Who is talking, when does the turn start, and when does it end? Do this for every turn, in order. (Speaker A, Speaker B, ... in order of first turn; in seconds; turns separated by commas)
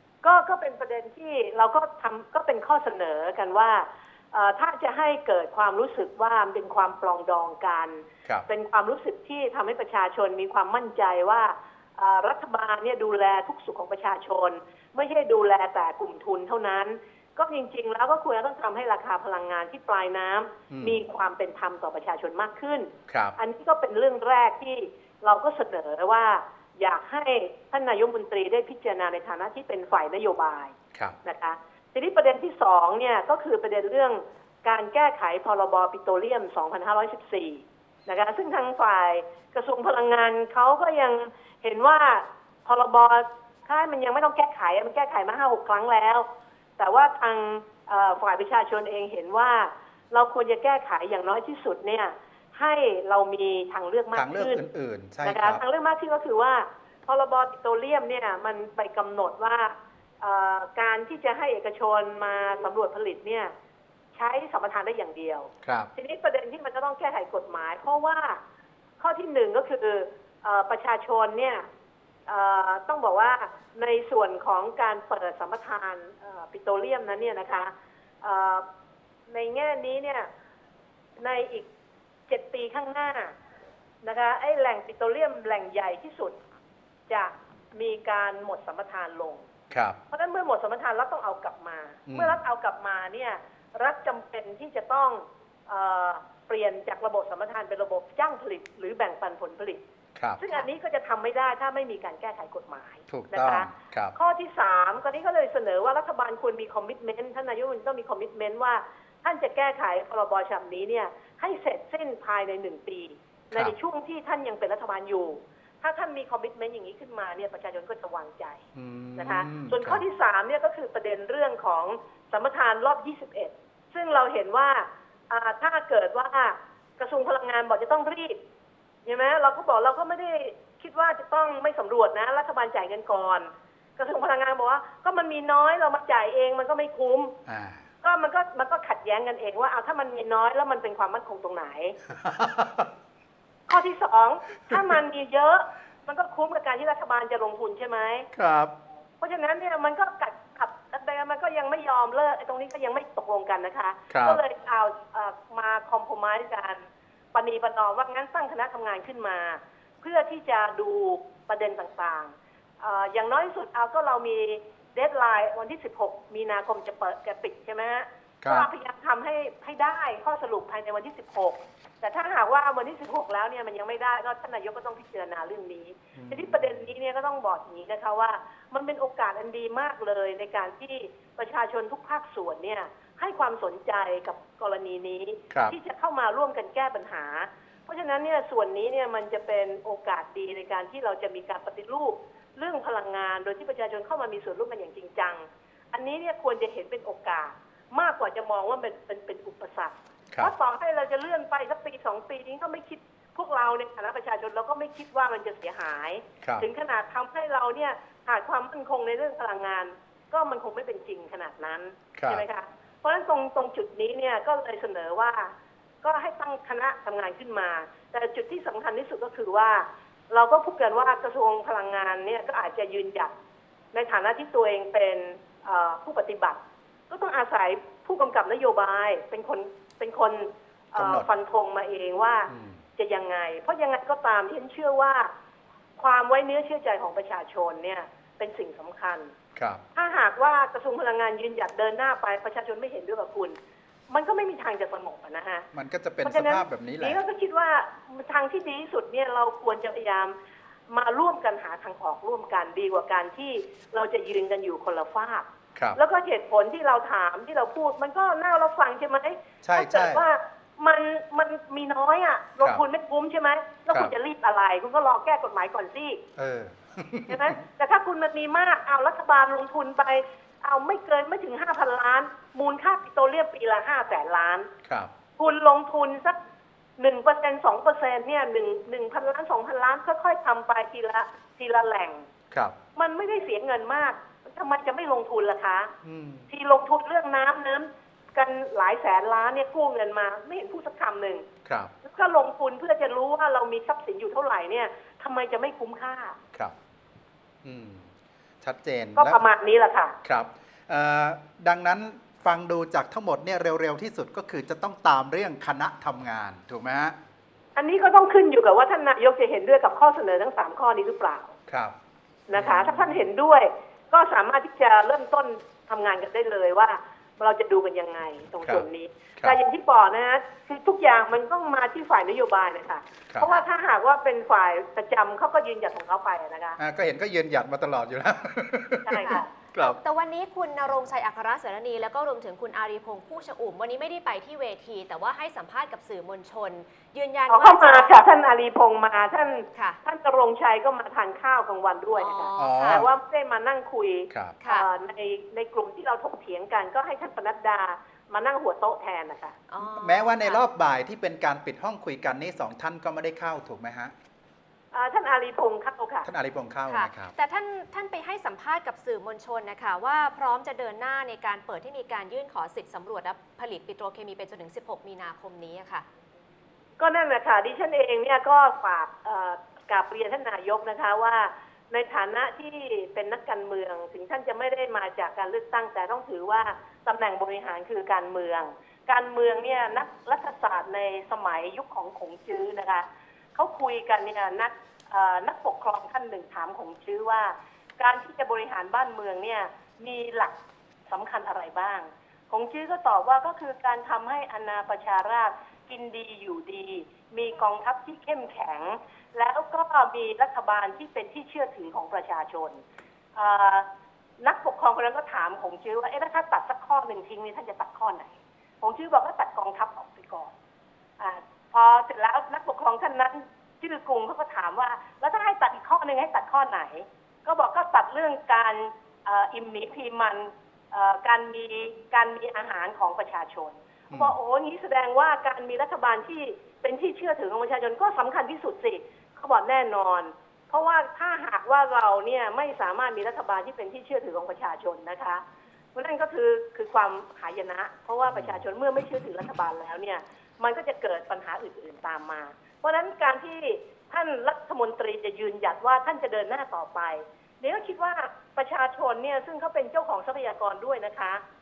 Speaker A: 0.2-30.7, Speaker B: 20.7-21.0, Speaker B: 23.1-23.4, Speaker A: 31.2-46.3, Speaker A: 46.8-54.6, Speaker B: 54.1-55.6, Speaker A: 55.2-63.5, Speaker A: 64.2-68.4, Speaker B: 65.6-65.9, Speaker A: 69.0-71.7, Speaker A: 72.3-78.7, Speaker A: 79.3-80.3, Speaker A: 81.2-81.7, Speaker A: 82.3-83.3, Speaker A: 84.0-86.4, Speaker A: 87.1-89.4, Speaker B: 89.7-90.0, Speaker A: 90.1-99.8, Speaker B: 92.1-92.4, Speaker B: 100.2-100.4, Speaker A: 100.4-118.6, Speaker B: 103.1-104.2, Speaker B: 118.8-120.0, Speaker A: 119.2-128.4, Speaker A: 129.1-137.4, Speaker B: 137.5-137.8, Speaker A: 138.0-142.0, Speaker B: 142.2-142.9, Speaker A: 143.7-148.3, Speaker B: 148.3-148.8, Speaker A: 149.2-215.5, Speaker B: 154.1-154.4, Speaker B: 168.4-168.7, Speaker B: 176.2-176.8, Speaker B: 212.2-212.4, Speaker A: 216.0-223.3, Speaker A: 223.9-226.6, Speaker A: 227.1-235.3, Speaker B: 231.0-231.3, Speaker B: 232.5-232.8, Speaker A: 236.0-239.3, Speaker B: 239.6-239.8, Speaker A: 240.0-243.6, Speaker A: 244.1-245.7, Speaker B: 245.7-247.2, Speaker A: 246.2-250.3, Speaker A: 250.9-266.2, Speaker B: 259.6-260.2, Speaker B: 266.4-267.5, Speaker A: 267.3-274.7, Speaker B: 274.9-275.1, Speaker A: 275.4-276.4, Speaker A: 277.0-282.2, Speaker A: 283.0-285.9, Speaker B: 286.0-286.5, Speaker A: 286.5-291.4, Speaker B: 291.7-291.9, Speaker A: 292.1-296.4, Speaker B: 297.6-298.1, Speaker B: 298.6-299.4, Speaker A: 299.2-300.1, Speaker B: 300.2-307.2, Speaker A: 307.8-311.5, Speaker B: 311.7-311.9, Speaker A: 312.5-326.8, Speaker B: 312.6-313.3, Speaker B: 326.8-330.0, Speaker A: 329.1-329.5, Speaker C: 329.2-338.1, Speaker A: 337.5-349.6, Speaker C: 342.2-343.0, Speaker B: 342.6-343.1, Speaker B: 344.3-344.6, Speaker C: 349.7-350.6, Speaker B: 349.9-354.1, Speaker A: 354.9-356.3, Speaker B: 356.2-357.4, Speaker C: 356.9-366.1, Speaker A: 367.0-390.6, Speaker A: 391.1-402.8, Speaker A: 403.4-403.9, Speaker A: 404.4-410.5, Speaker A: 411.2-435.4, Speaker B: 424.1-424.4, Speaker A: 435.9-451.4, Speaker B: 438.3-438.6